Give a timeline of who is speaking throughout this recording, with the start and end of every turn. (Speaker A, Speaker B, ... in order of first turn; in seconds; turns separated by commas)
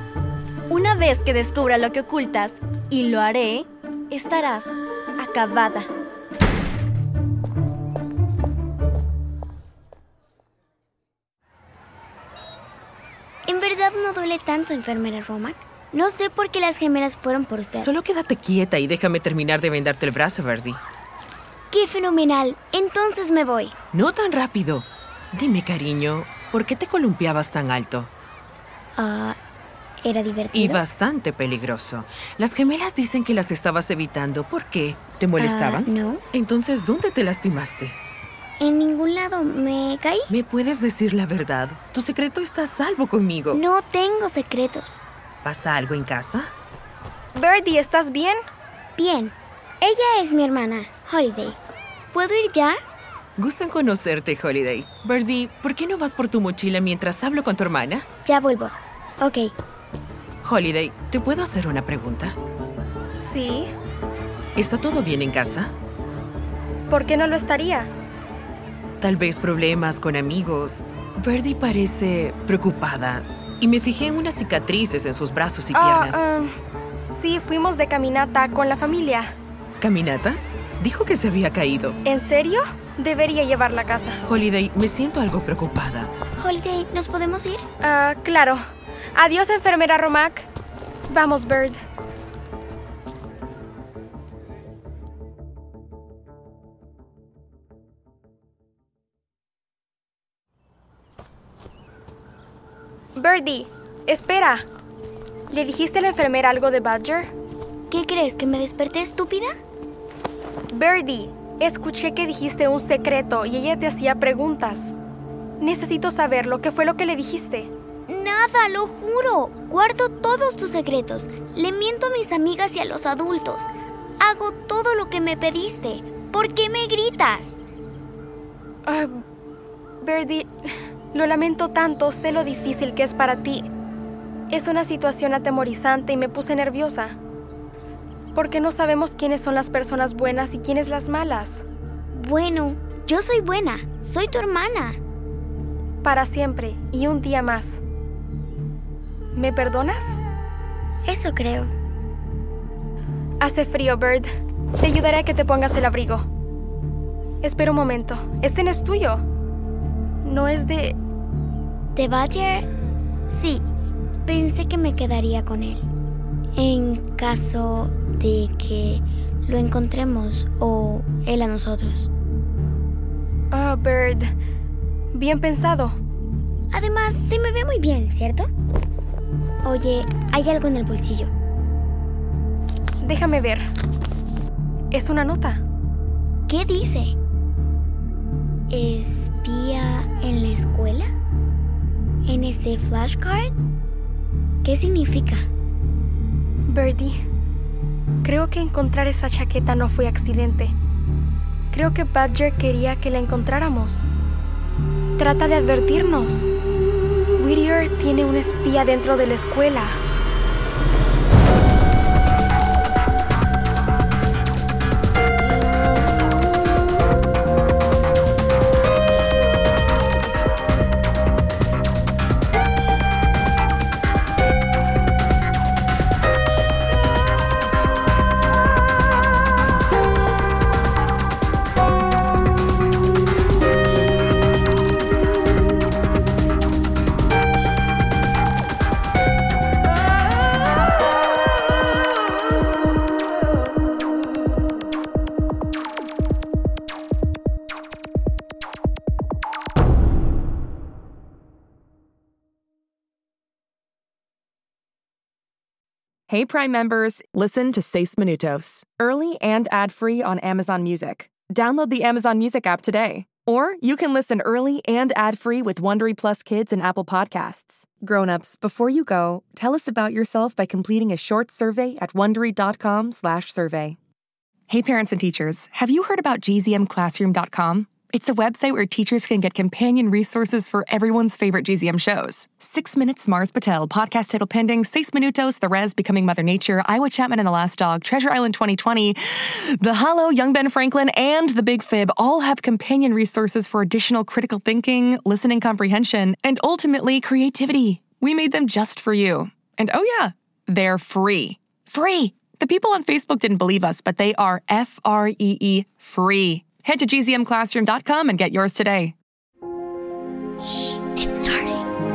Speaker A: 0.7-5.9, Speaker B: 13.4-17.9, Speaker C: 17.8-20.8, Speaker B: 21.7-23.7, Speaker C: 23.9-28.1, Speaker B: 28.9-29.4, Speaker B: 30.0-30.8, Speaker C: 30.5-38.0, Speaker B: 35.4-36.2, Speaker B: 38.6-40.3, Speaker C: 40.3-43.6, Speaker B: 43.5-45.0, Speaker C: 45.4-46.5, Speaker D: 47.3-48.4, Speaker B: 49.0-51.6, Speaker B: 52.1-52.8, Speaker C: 53.4-58.0, Speaker B: 58.2-59.5, Speaker C: 60.4-62.4, Speaker D: 63.1-63.7, Speaker C: 64.5-65.7, Speaker D: 66.9-67.9, Speaker C: 69.0-76.2, Speaker D: 75.7-76.5, Speaker D: 77.1-79.3, Speaker C: 79.8-82.0, Speaker D: 82.0-84.2, Speaker C: 84.2-86.1, Speaker B: 86.4-87.6, Speaker D: 87.8-88.6, Speaker D: 89.1-90.5, Speaker D: 91.1-91.8, Speaker D: 103.1-104.7, Speaker D: 105.5-107.3, Speaker B: 107.9-109.5, Speaker D: 110.7-114.9, Speaker D: 115.6-117.7, Speaker B: 118.1-127.6, Speaker D: 128.8-129.2, Speaker D: 130.0-130.5, Speaker D: 131.1-133.7, Speaker D: 134.5-137.2, Speaker D: 138.3-141.6, Speaker B: 142.1-145.0, Speaker D: 146.0-147.8, Speaker D: 149.3-150.2, Speaker B: 151.1-151.7, Speaker D: 153.4-154.2, Speaker D: 154.8-156.3, Speaker D: 157.4-159.2, Speaker D: 160.2-161.0, Speaker B: 161.9-162.7, Speaker B: 163.3-163.7, Speaker B: 164.2-165.8, Speaker B: 166.6-172.1, Speaker D: 173.5-174.3, Speaker D: 175.1-175.9, Speaker B: 176.7-178.5, Speaker B: 179.6-181.3, Speaker D: 183.0-183.6, Speaker D: 184.9-185.6, Speaker B: 186.5-187.2, Speaker B: 188.7-191.1, Speaker B: 192.2-193.5, Speaker B: 194.6-195.5, Speaker D: 196.7-197.1, Speaker D: 198.2-200.7, Speaker D: 201.7-204.1, Speaker D: 205.2-206.5, Speaker D: 207.4-209.9, Speaker E: 256.3-274.0, Speaker E: 274.7-309.1, Speaker B: 310.7-311.8